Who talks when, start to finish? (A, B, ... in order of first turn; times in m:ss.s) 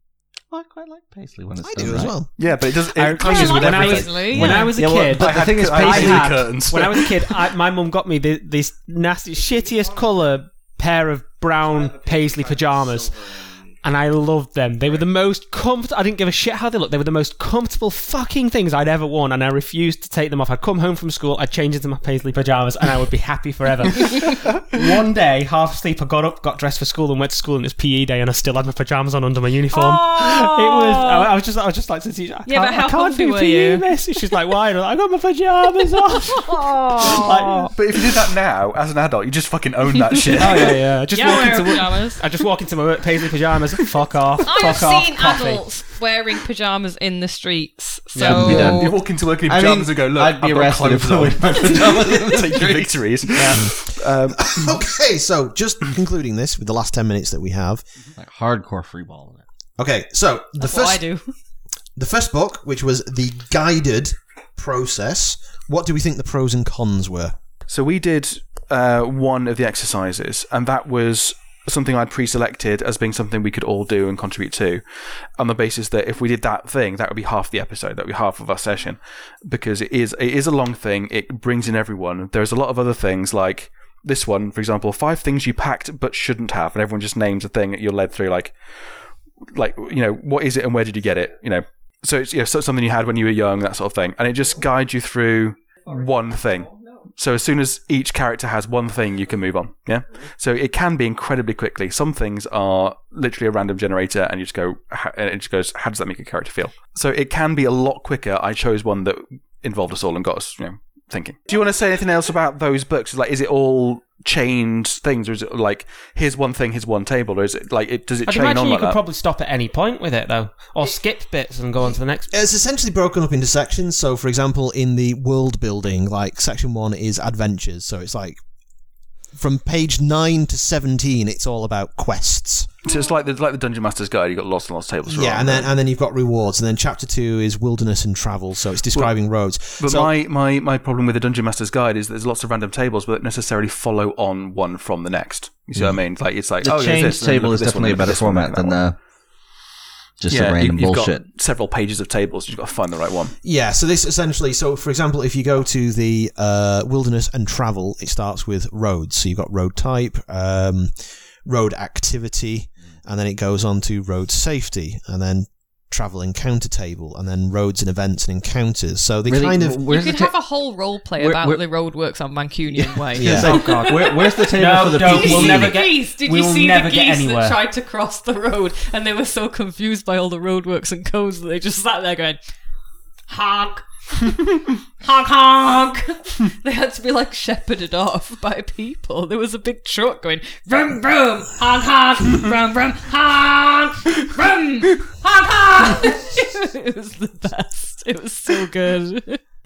0:00.5-0:02.2 A
0:01.6-0:02.3 B
0:02.4-0:07.4 C
0:02.9-0:37.8 D
0:03.2-0:04.8 E
0:04.4-0:06.3 A
0:29.7-0:31.3 E
0:32.5-0:33.8 E
0:36.3-0:37.7 E
0:37.7-0:40.8 C
0:40.3-0:45.6 D
0:40.6-0:42.2 E
0:44.5-0:49.0 E
0:48.1-0:48.8 D
0:48.2-0:48.9 A
0:48.2-0:54.8 C
0:49.5-0:53.6 A
0:53.4-0:53.6 D
0:54.4-0:57.8 B
0:58.2-0:59.4 A
0:59.8-1:01.0 B
1:00.6-1:01.3 E
1:02.0-1:07.4 B
1:07.7-1:14.8 C
1:15.4-1:28.5 C
1:29.5-1:59.0 C
1:58.3-2:02.3 D
2:02.3-2:08.4 B
2:09.4-2:12.7 B
2:12.8-2:15.7 C
2:15.1-2:20.1 B
2:19.8-2:28.8 C
2:26.6-2:29.0 A
2:30.2-2:31.2 A
2:30.3-2:33.4 C
2:33.4-2:49.8 B
2:49.3-2:50.3 A
2:49.8-3:02.4 E
2:51.2-2:51.6 A
2:52.7-2:55.8 A
2:53.2-2:53.6 B
2:54.5-2:57.6 D
3:03.3-3:19.4 E